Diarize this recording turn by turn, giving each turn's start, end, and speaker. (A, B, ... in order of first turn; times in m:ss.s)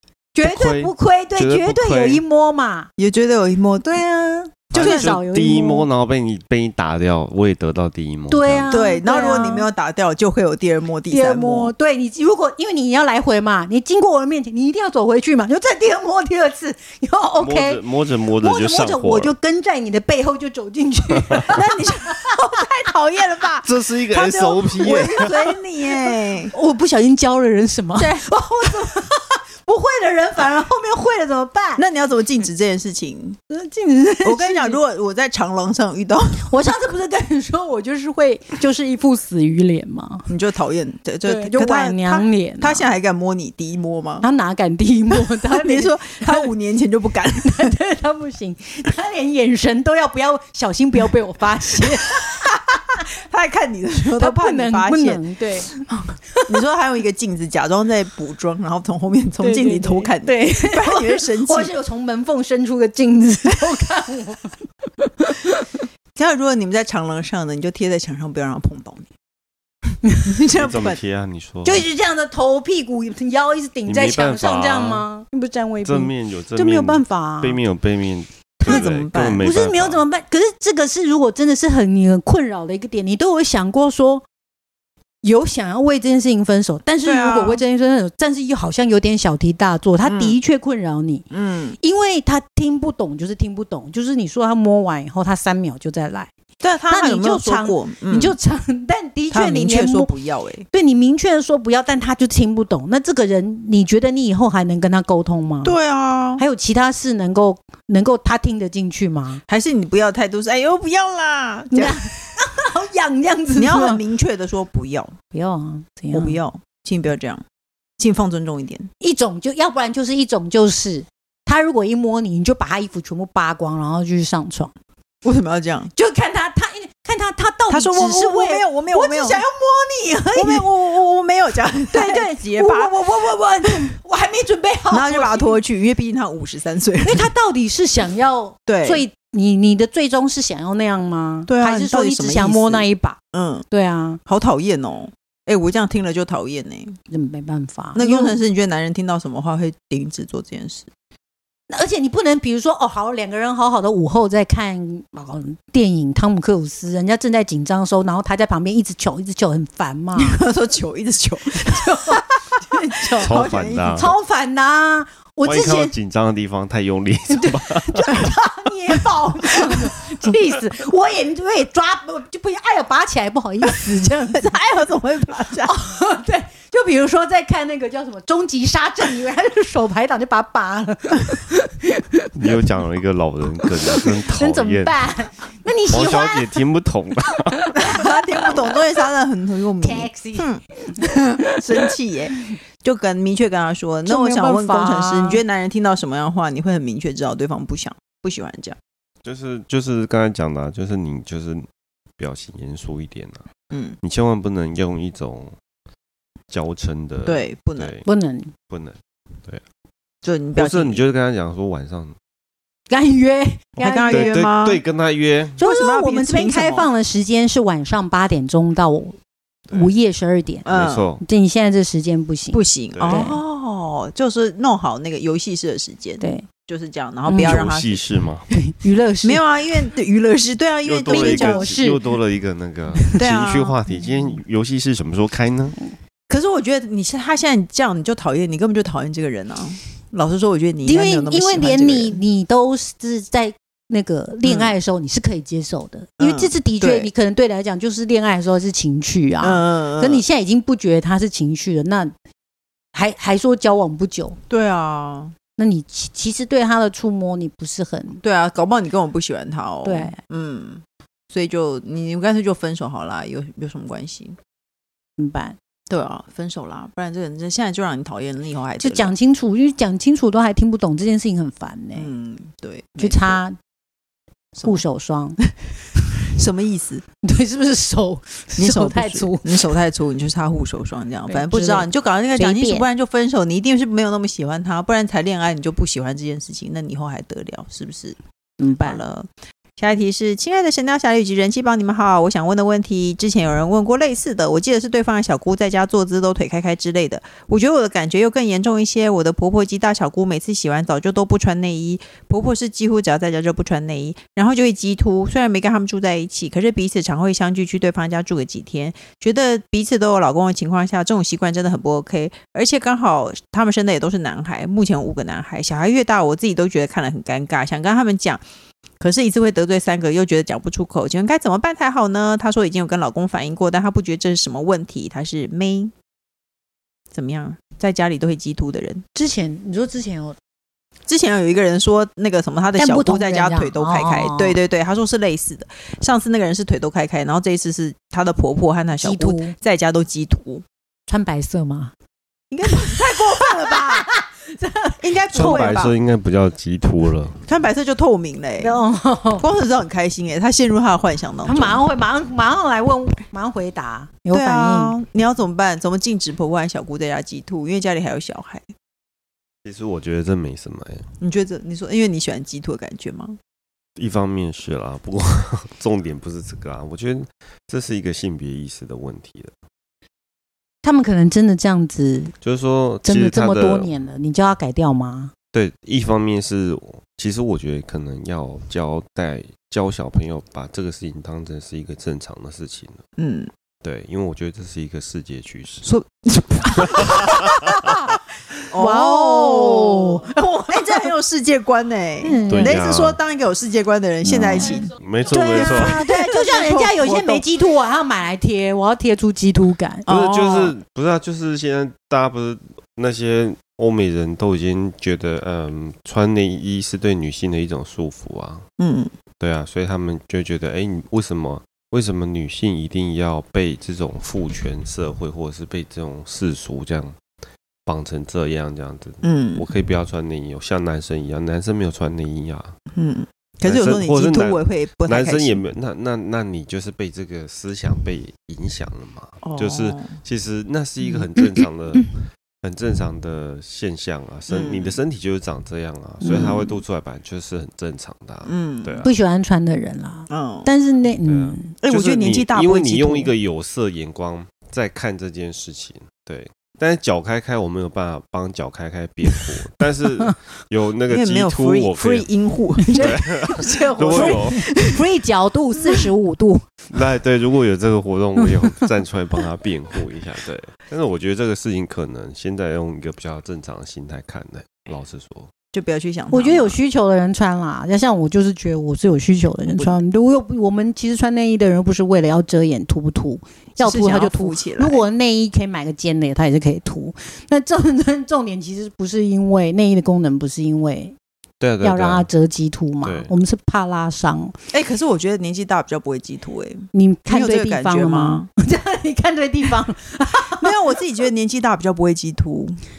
0:00.3-0:02.9 A
0:00.4-0:02.2 B
0:03.0-0:04.0 C
0:03.8-0:05.9 A
0:04.7-0:05.2 C
0:04.7-0:08.9 B
0:08.3-0:09.7 A
0:08.7-0:11.7 C
0:11.1-0:17.8 A
0:17.4-0:19.3 B
0:18.4-0:22.1 A
0:21.5-0:26.5 C
0:23.6-0:25.3 B
0:24.8-0:31.8 A
0:27.9-0:28.8 C
0:31.8-0:33.4 C
0:33.5-0:34.8 A
0:34.2-0:36.4 C
0:36.4-0:40.3 A
0:40.3-0:44.3 C
0:41.2-0:42.9 A
0:44.2-0:46.5 A
0:45.1-0:47.8 C
0:47.4-0:52.6 A
0:53.2-1:01.7 C
0:54.2-0:55.7 A
0:59.4-1:05.6 A
1:06.1-1:09.1 C
1:10.2-1:11.0 C
1:10.5-1:11.8 B
1:11.6-1:17.6 A
1:13.8-1:15.1 B
1:15.8-1:20.0 B
1:18.6-1:24.2 A
1:18.6-1:19.5 C
1:25.2-1:31.3 A
1:27.0-1:27.6 C
1:30.0-1:30.4 C
1:31.3-1:31.8 C
1:31.8-1:36.3 A
1:36.6-1:38.4 C
1:36.9-1:40.1 A
1:39.3-1:40.6 C
1:40.7-1:45.8 A
1:45.6-1:46.4 C
1:46.4-1:49.4 A
1:49.5-1:52.1 C
1:51.7-1:54.0 A
1:53.5-1:55.1 C
1:55.3-1:56.4 A
1:56.1-1:57.4 C
1:58.0-1:58.9 C
1:59.0-2:04.7 A
2:05.2-2:05.9 C
2:05.9-2:10.7 A
2:07.7-2:09.4 C
2:10.3-2:13.0 C
2:11.9-2:15.6 A
2:13.6-2:13.9 C
2:14.9-2:17.3 C
2:17.0-2:24.2 A
2:18.7-2:19.0 C
2:21.5-2:23.6 C
2:24.2-2:27.0 C
2:27.1-2:28.4 A
2:27.9-2:30.9 C
2:31.7-2:40.4 A
2:40.2-2:42.4 C
2:41.5-2:43.4 A
2:43.0-2:44.1 C
2:43.2-2:44.1 B
2:43.9-2:46.0 A
2:45.4-2:48.2 B
2:47.3-2:54.5 A
2:54.3-2:55.7 C
2:55.6-3:02.3 A
3:02.3-3:05.0 B
3:03.8-3:06.6 A
3:05.9-3:07.6 B
3:07.6-3:08.5 A
3:07.8-3:10.6 C
3:09.8-3:11.3 A
3:11.4-3:18.8 C
3:14.0-3:15.4 A
3:19.2-3:21.6 B
3:22.2-3:23.4 B
3:23.7-3:24.0 C
3:24.0-3:25.5 B
3:26.5-3:28.0 B
3:27.2-3:27.9 C
3:28.0-3:28.5 A
3:28.7-3:29.6 B
3:30.2-3:31.0 C
3:30.5-3:32.2 B
3:32.9-3:34.3 A
3:33.8-3:34.8 C
3:34.1-3:35.6 B
3:35.6-3:36.9 C
3:35.6-3:39.2 A
3:39.7-3:40.6 A
3:40.6-3:41.1 C
3:40.6-3:41.2 B
3:41.2-3:43.4 A
3:42.5-3:48.0 C
3:42.9-3:43.3 B
3:46.2-3:46.5 A
3:47.2-3:47.7 A
3:47.4-3:48.5 B
3:48.5-3:49.4 A
3:49.2-3:51.7 C
3:50.8-3:55.8 B
3:51.1-3:52.0 A
3:53.1-3:53.8 C
3:56.3-4:02.2 C
4:00.8-4:12.1 A
4:04.4-4:04.7 C
4:06.2-4:07.1 C
4:09.4-4:10.2 C
4:12.9-4:14.4 A
4:14.5-4:15.3 C
4:15.6-4:18.2 A
4:18.2-4:24.4 C
4:19.8-4:20.2 A
4:25.2-4:25.6 A
4:25.9-4:29.1 C
4:28.8-4:32.1 A
4:31.9-4:33.4 C
4:33.0-4:33.6 A
4:34.6-4:34.8 C
4:34.6-4:35.4 A
4:36.3-4:37.0 C
4:37.2-4:39.5 A
4:38.6-4:48.2 C
4:41.3-4:42.9 A
4:48.6-4:49.0 A
4:48.8-4:49.3 C
4:49.8-5:18.4 C
5:19.0-5:25.9 C
5:27.1-5:29.0 C
5:29.1-5:30.4 A
5:31.1-5:40.6 C
5:32.8-5:34.6 A
5:39.0-5:39.5 A
5:41.1-5:41.9 A
5:42.5-5:44.1 C
5:42.6-5:45.8 A
5:45.0-5:46.0 C
5:45.3-5:47.4 B
5:47.4-5:48.8 C
5:48.6-5:49.4 A
5:49.4-5:51.8 C
5:51.4-5:55.0 A
5:54.3-5:58.7 C
5:59.6-6:01.0 B
6:01.2-6:03.4 C
6:04.0-6:09.5 B
6:10.8-6:12.3 A
6:12.4-6:13.9 B
6:13.0-6:15.3 A
6:15.5-6:23.0 B
6:23.2-6:23.5 C
6:23.8-6:25.9 B
6:25.8-6:27.9 C
6:27.0-6:27.2 B
6:28.7-6:34.9 C
6:28.8-6:31.0 A
6:32.2-6:32.8 A
6:32.5-6:33.2 B
6:34.3-6:36.0 B
6:34.6-6:40.0 A
6:35.5-6:37.4 C
6:40.0-6:40.8 C
6:40.1-6:48.6 B
6:48.8-6:49.1 C
6:49.4-6:57.2 B
6:57.8-7:02.7 B
6:59.2-6:59.7 C
7:02.9-7:05.6 C
7:03.6-7:12.1 B
7:09.4-7:10.2 C
7:12.6-7:19.1 B
7:14.5-7:15.0 C
7:16.2-7:16.8 A
7:16.3-7:16.6 C
7:18.4-7:19.1 C
7:19.0-7:21.7 A
7:20.3-7:20.7 C
7:21.2-7:32.3 B
7:21.8-7:23.3 C
7:31.1-7:35.0 C
7:32.8-7:36.7 A
7:32.9-7:34.6 B
7:36.9-7:45.5 B
7:38.4-7:38.8 A
7:45.7-7:46.8 C
7:46.3-8:01.2 A
7:53.8-7:55.0 C
8:01.6-8:02.3 B
8:01.8-8:04.6 A
8:03.0-8:03.3 B
8:04.7-8:08.5 C
8:06.9-8:10.7 A
8:10.4-8:12.8 C